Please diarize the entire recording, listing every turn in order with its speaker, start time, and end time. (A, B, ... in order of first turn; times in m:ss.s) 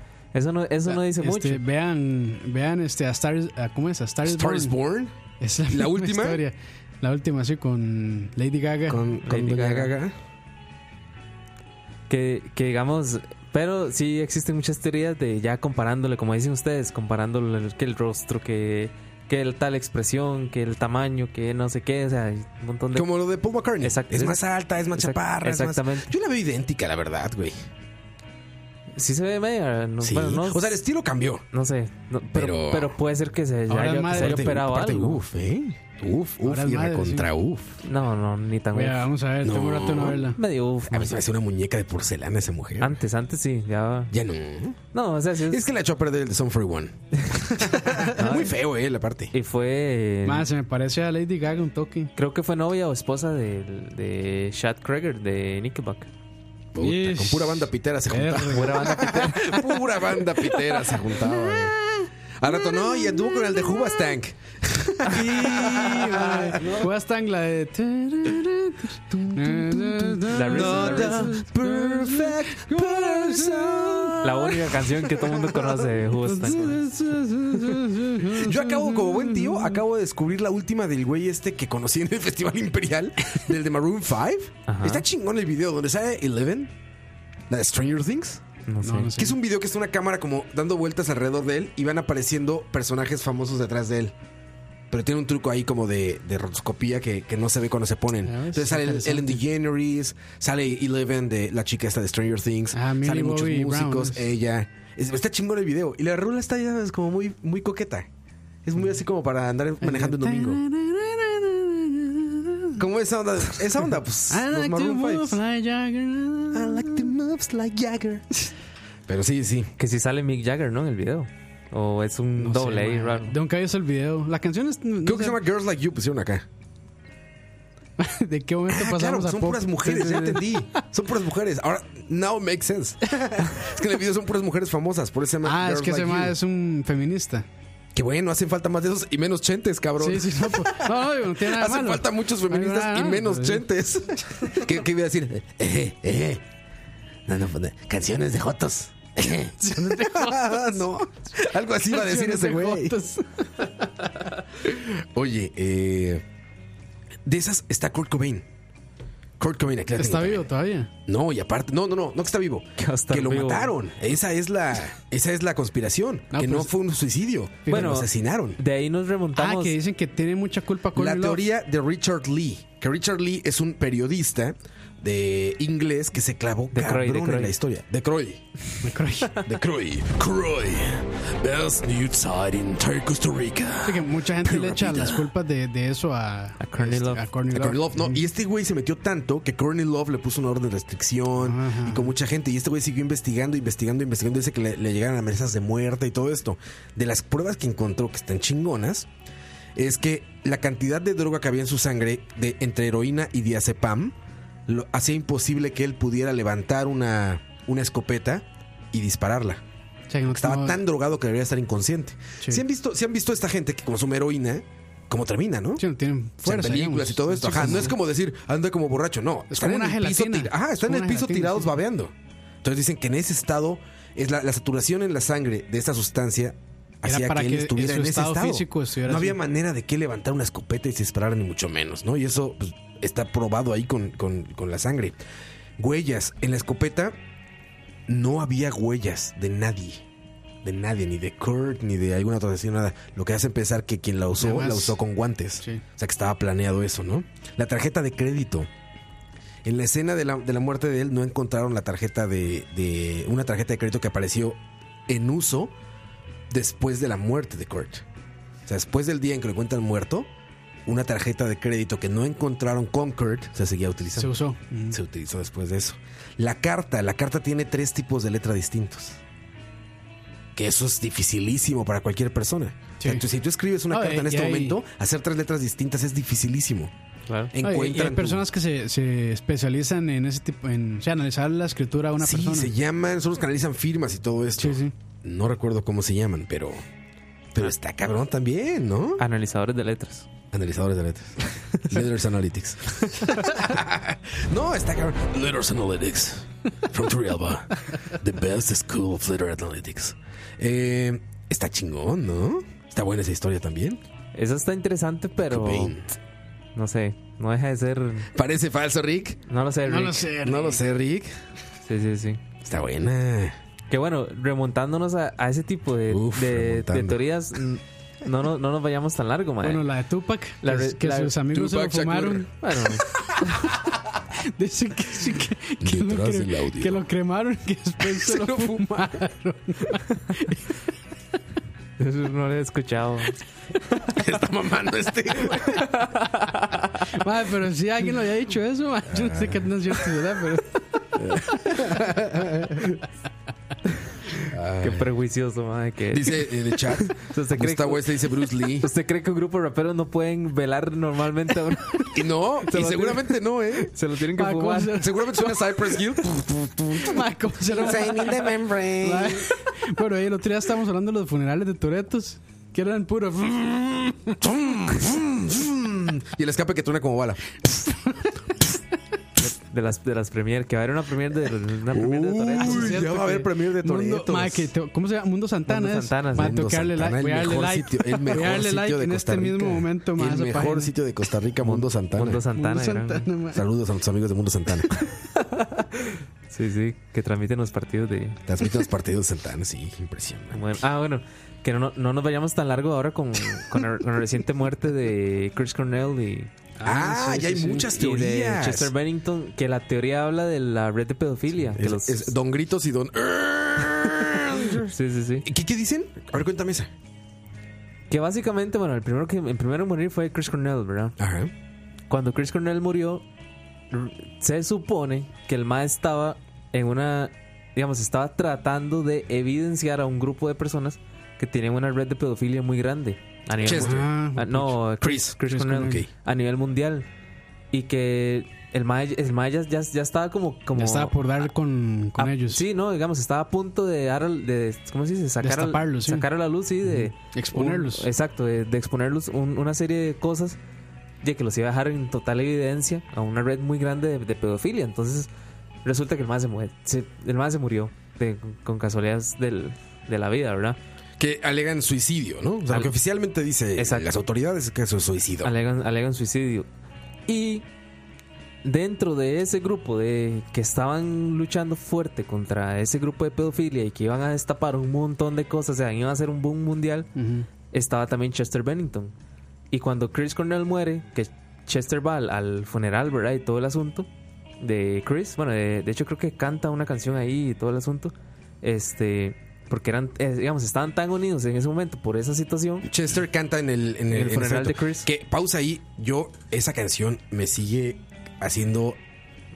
0:00.3-0:01.6 A
0:00.9-0:04.8 B
0:04.2-0:05.1 C
0:05.4-0:09.0 B
0:05.7-0:06.4 C
0:08.9-0:10.2 C
0:09.2-0:09.9 A
0:12.1-0:23.1 A
0:22.9-0:27.6 C
0:23.8-0:26.1 A
0:29.0-0:30.8 A
0:30.0-0:31.5 C
0:31.5-0:35.2 A
0:32.3-0:33.0 C
0:33.7-0:34.5 B
0:34.1-0:37.8 C
0:36.4-0:37.3 B
0:37.8-0:39.1 A
0:38.7-0:40.4 B
0:39.4-0:40.4 C
0:40.4-0:41.2 A
0:40.9-0:43.0 C
0:42.8-0:44.1 A
0:44.1-0:44.8 C
0:44.9-0:45.6 A
0:45.5-0:47.0 C
0:47.5-0:49.3 C
0:48.1-0:48.6 A
0:49.3-0:50.5 A
0:50.2-0:52.1 B
0:52.2-0:56.1 A
0:56.7-1:01.8 C
0:56.8-0:59.6 B
0:58.5-0:59.6 A
1:01.1-1:03.9 B
1:02.4-1:06.9 C
1:05.1-1:14.5 B
1:09.3-1:15.9 C
1:10.3-1:11.4 A
1:14.2-1:16.9 A
1:15.5-1:19.8 B
1:18.3-1:26.7 C
1:24.7-1:25.0 A
1:27.5-1:28.4 C
1:28.7-1:29.1 A
1:28.8-1:29.4 B
1:29.2-1:34.1 C
1:34.9-1:48.1 C
1:38.2-1:39.4 B
1:42.7-1:44.2 B
1:48.6-1:50.6 C
1:49.8-1:52.8 B
1:52.8-1:55.4 C
1:54.3-1:57.0 B
1:56.5-1:58.3 C
1:59.1-1:59.7 C
1:59.8-2:03.4 A
2:02.4-2:05.4 B
2:05.0-2:06.5 C
2:08.0-2:10.6 B
2:08.7-2:16.4 C
2:15.4-2:17.5 B
2:18.0-2:26.4 C
2:20.0-2:23.6 B
2:27.3-2:33.0 C
2:29.6-2:30.8 B
2:31.8-2:33.8 B
2:34.7-2:36.2 C
2:37.2-2:38.5 C
2:39.4-2:40.5 C
2:40.0-2:40.9 B
2:41.1-2:48.6 C
2:42.8-2:43.7 A
2:46.3-2:46.7 B
2:47.7-2:48.0 B
2:47.7-2:49.8 A
2:49.4-2:51.4 B
2:50.9-2:58.4 C
2:56.7-2:57.5 A
2:58.8-2:59.4 B
2:59.4-3:05.3 C
3:03.8-3:08.2 B
3:06.6-3:07.2 A
3:07.5-3:19.1 C
3:11.4-3:12.1 B
3:19.8-3:24.2 C
3:24.7-3:29.6 C
3:30.1-3:30.8 B
3:30.3-3:35.8 C
3:35.8-3:38.0 B
3:36.4-3:55.2 C
3:39.5-3:41.7 B
3:47.0-3:49.4 B
3:55.8-3:57.2 C
3:58.1-4:00.0 C
4:00.6-4:08.7 C
4:04.4-4:05.0 B
4:09.6-4:15.7 C
4:16.5-4:18.0 C
4:18.7-4:20.3 C
4:20.9-4:24.3 C
4:24.2-4:25.0 B
4:24.9-4:29.2 C
4:30.6-4:36.9 C
4:33.9-4:34.8 B
4:37.5-4:38.4 C
4:37.6-4:42.7 B
4:42.2-4:46.8 C
4:44.6-4:44.9 B
4:47.5-4:49.2 C
4:49.2-4:50.3 A
4:50.5-5:04.0 C
5:04.3-5:06.0 A
5:05.5-5:06.1 C
5:06.8-5:08.3 A
5:08.4-5:09.4 C
5:09.5-5:10.3 A
5:09.9-5:10.8 B
5:10.4-5:11.3 C
5:11.9-5:12.4 A
5:12.6-5:13.6 C
5:13.9-5:19.9 A
5:16.1-5:17.2 C
5:19.6-5:22.5 B
5:20.6-5:21.4 A
5:21.5-5:22.5 C
5:22.6-5:23.5 A
5:24.6-5:30.6 B
5:25.8-5:27.1 C
5:28.1-5:29.0 C
5:32.0-5:33.4 A
5:34.1-5:35.8 C
5:35.8-5:36.7 A
5:37.2-5:40.8 B
5:39.1-5:39.7 C
5:41.2-5:42.9 C
5:44.5-5:45.1 C
5:44.8-5:48.2 A
5:46.1-5:48.9 C
5:48.8-5:52.1 A
5:52.1-5:53.9 C
5:52.7-5:53.4 A
5:53.9-5:55.1 A
5:54.4-5:56.0 B
5:55.0-5:59.5 C
5:57.0-6:04.4 B
6:04.4-6:07.4 C
6:07.9-6:08.2 B
6:09.4-6:13.0 A
6:11.9-6:14.7 C
6:12.5-6:20.9 B
6:15.7-6:16.6 A
6:16.4-6:22.4 C
6:21.6-6:23.3 A
6:22.6-6:23.6 B
6:23.5-6:24.9 C
6:25.0-6:28.4 A
6:28.5-6:30.6 C
6:30.5-6:36.5 A
6:36.8-6:37.9 B
6:36.8-6:38.9 C
6:38.0-6:42.3 A
6:41.6-6:44.9 C
6:44.8-6:45.5 A
6:45.4-6:46.9 C
6:48.1-6:51.2 A
6:51.2-6:51.5 C
6:52.1-6:53.2 A
6:53.9-7:07.1 A
7:03.6-7:04.1 C
7:03.6-7:04.8 B
7:05.0-7:06.1 C
7:05.5-7:06.0 B
7:07.7-7:11.5 A
7:10.7-7:12.6 B
7:12.2-7:20.6 A
7:15.4-7:16.3 B
7:16.8-7:18.1 B
7:21.2-7:25.3 A
7:25.8-7:30.8 A
7:31.2-7:35.5 C
7:33.8-7:34.1 A
7:35.4-7:36.7 A
7:37.3-7:37.6 A
7:38.6-7:47.1 A
7:47.2-7:47.5 B
7:47.7-7:49.1 A
7:49.7-7:54.1 A
7:54.6-8:02.9 A
8:02.8-8:09.0 C
8:04.1-8:05.1 A